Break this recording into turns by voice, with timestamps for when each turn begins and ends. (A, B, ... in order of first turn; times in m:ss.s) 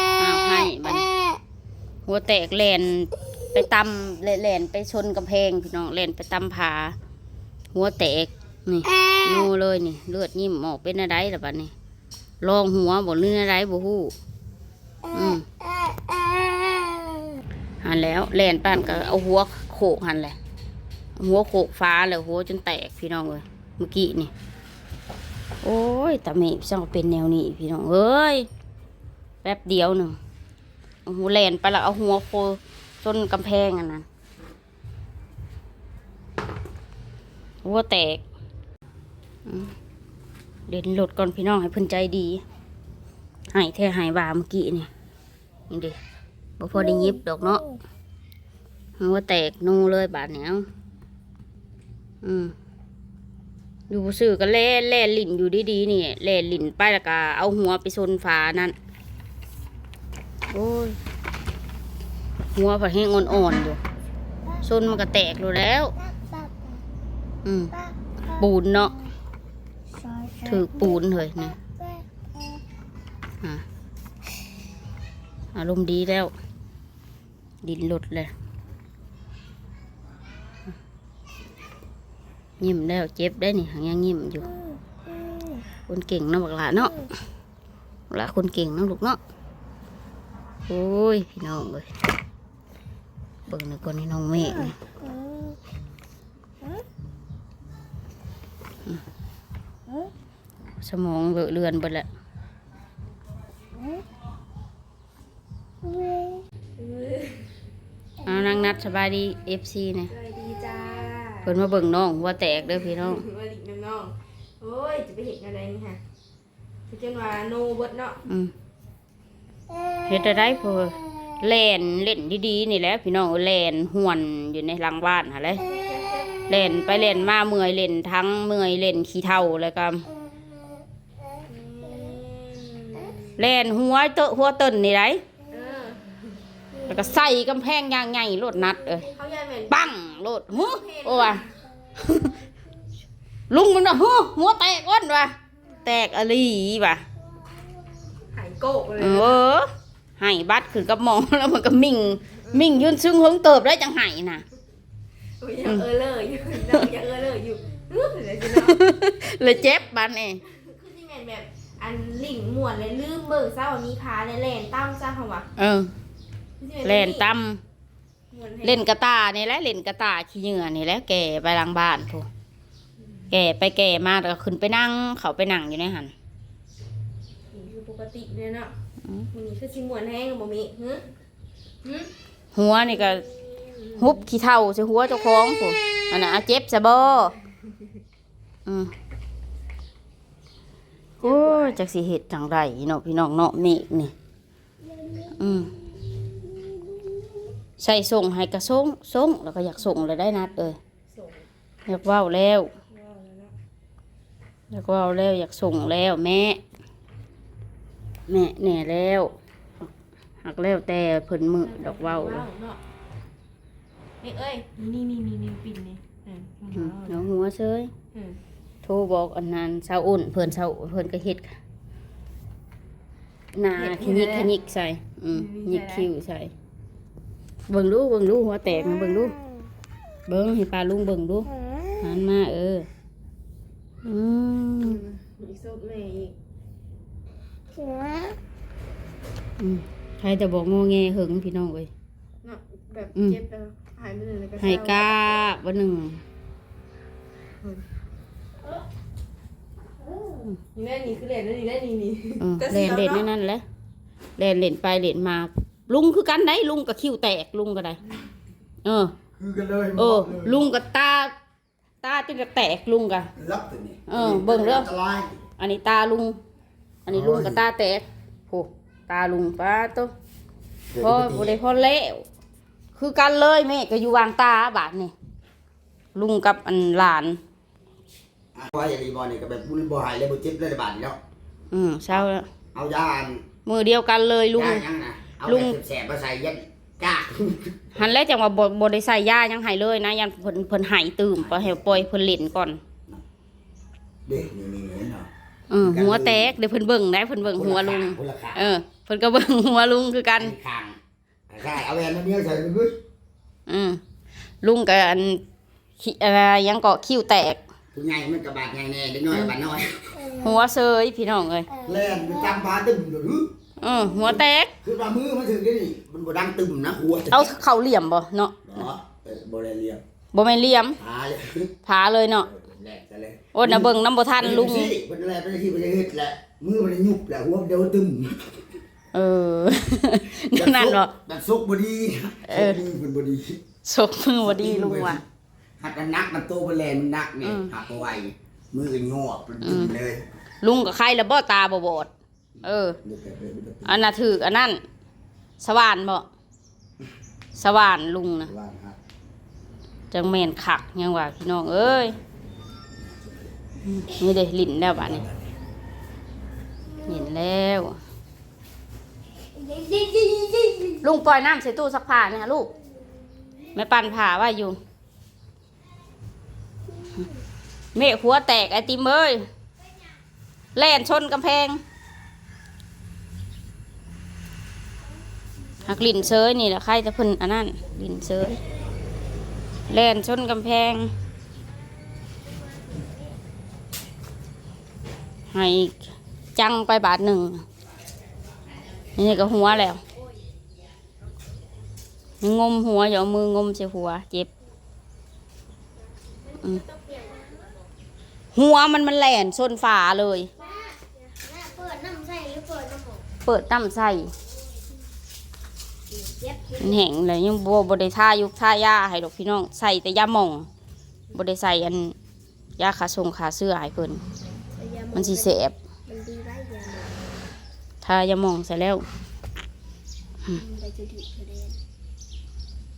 0:00.2-0:01.1 A
0:02.0-0:07.0 A
0:07.7-0:11.7 A
0:12.4-0:14.1 A
0:15.1-0:15.5 A
0:17.8-0:20.4 A
0:21.2-0:24.3 A
0:25.6-0:28.5 A
0:29.4-0:30.2 A
0:31.0-0:34.0 A
0:37.6-0:38.2 A
0:39.4-0:39.7 A
0:40.7-0:42.4 A
0:43.5-0:44.9 A
0:45.7-0:46.0 A
0:46.6-0:47.6 A
0:49.0-0:50.6 A
0:52.2-0:52.5 A
0:53.9-0:58.7 A
1:00.5-1:01.0 A
1:02.5-1:03.8 A
1:04.6-1:05.9 A
1:07.4-1:07.8 A
1:08.3-1:09.0 A
1:10.4-1:11.6 A
1:15.5-1:16.3 A
1:17.6-1:18.3 A
1:22.6-1:24.5 A
1:25.9-1:27.0 A
1:28.1-1:29.2 A
1:30.7-1:31.9 A
1:33.5-1:34.8 A
1:40.8-1:42.1 A
1:46.8-1:47.5 B
1:48.2-1:50.1 A
1:50.1-1:51.5 B
1:51.4-1:53.2 A
1:52.9-1:56.0 B
1:56.9-1:58.2 B
1:58.3-1:58.5 A
2:00.1-2:05.7 A
2:05.7-2:06.3 B
2:06.5-2:10.1 A
2:11.4-2:13.4 B
2:13.4-2:15.2 A
2:15.5-2:16.1 B
2:16.8-2:19.1 A
2:19.1-2:19.8 B
2:19.7-2:21.4 A
2:20.5-2:21.6 B
2:22.0-2:22.3 A
2:23.5-2:27.0 A
2:28.3-2:29.4 B
2:29.0-2:34.4 A
2:35.4-2:38.8 B
2:38.5-2:40.4 A
2:39.5-2:39.8 B
2:40.5-2:45.5 B
2:45.6-2:45.9 A
2:46.6-2:47.3 B
2:46.8-2:47.6 A
2:48.3-2:48.9 B
2:48.6-2:52.3 A
2:53.3-2:56.1 A
2:57.5-2:58.7 B
2:59.3-3:01.0 B
3:01.8-3:02.1 B
3:02.5-3:03.2 A
3:03.3-3:04.0 B
3:04.0-3:07.4 A
3:08.6-3:08.9 A
3:11.2-3:11.8 B
3:11.2-3:14.1 A
3:15.4-3:15.7 A
3:17.8-3:20.8 A
3:21.1-3:21.4 B
3:21.8-3:22.7 A
3:22.9-3:23.5 B
3:24.7-3:26.6 A
3:28.3-3:29.9 A
3:30.4-3:32.4 A
3:31.6-3:32.8 B
3:34.2-3:37.3 B
3:36.7-3:37.9 A
3:38.1-3:38.4 B
3:38.8-3:41.6 A
3:43.5-3:46.5 A
3:43.7-3:44.5 B
3:45.3-3:46.1 B
3:47.7-3:49.4 A
3:50.3-3:52.9 A
3:54.0-3:55.0 A
3:54.8-3:56.3 B
3:59.6-4:01.9 A
4:02.4-4:05.3 B
4:04.6-4:06.2 A
4:10.7-4:13.3 B
4:12.4-4:13.6 A
4:14.4-4:18.0 A
4:18.8-4:19.2 A
4:19.3-4:20.7 C
4:20.0-4:21.3 A
4:22.0-4:23.3 A
4:23.4-4:25.4 C
4:24.1-4:24.9 A
4:25.6-4:26.4 A
4:27.0-4:30.1 A
4:27.1-4:27.6 C
4:30.9-4:31.6 C
4:31.0-4:32.2 A
4:32.9-4:35.1 A
4:36.1-4:37.4 A
4:38.5-4:41.2 C
4:41.7-4:42.5 A
4:42.1-4:43.4 C
4:43.6-4:44.8 A
4:44.5-4:48.0 C
4:45.4-4:45.8 A
4:47.9-4:52.8 A
4:51.4-4:52.0 C
4:54.2-4:55.3 C
4:55.7-5:00.5 A
4:55.8-4:56.5 C
4:57.5-4:58.7 C
5:00.4-5:01.0 C
5:01.5-5:03.0 C
5:03.7-5:04.0 A
5:04.6-5:05.4 A
5:06.0-5:07.6 A
5:07.9-5:10.3 C
5:10.3-5:11.7 A
5:11.8-5:13.5 C
5:13.8-5:14.7 A
5:14.8-5:17.6 C
5:17.3-5:18.8 A
5:18.6-5:20.0 C
5:20.3-5:21.0 A
5:21.0-5:21.7 C
5:21.8-5:22.5 A
5:22.4-5:28.6 C
5:23.5-5:24.9 A
5:29.1-5:31.1 A
5:30.5-5:33.6 C
5:32.5-5:32.8 A
5:33.8-5:35.2 A
5:34.4-5:35.2 C
5:35.8-5:40.2 C
5:37.4-5:37.7 A
5:39.6-5:39.9 A
5:40.6-5:42.1 A
5:42.6-5:43.0 A
5:43.0-5:44.0 C
5:43.8-5:44.8 A
5:45.6-5:46.2 A
5:47.5-5:48.5 A
5:48.4-5:49.0 C
5:50.1-5:52.2 A
5:53.8-5:55.2 A
5:55.1-5:55.4 C
5:57.0-5:58.0 A
5:59.6-6:01.0 D
6:01.0-6:02.7 A
6:03.7-6:04.8 A
6:07.9-6:09.4 A
6:10.7-6:11.8 A
6:15.8-6:18.6 A
6:19.9-6:21.1 A
6:25.5-6:27.6 A
6:29.2-6:30.0 A
6:32.4-6:34.5 A
6:36.8-6:37.6 D
6:38.5-6:40.5 A
6:40.6-6:43.2 D
6:43.4-6:44.3 A
6:46.2-6:47.0 D
6:46.8-6:50.7 A
6:51.3-6:52.2 A
6:52.8-6:54.2 A
6:55.0-6:55.4 D
6:55.1-6:55.7 A
6:56.1-6:56.8 D
6:58.0-6:59.0 A
7:00.5-7:01.4 D
7:01.1-7:01.7 B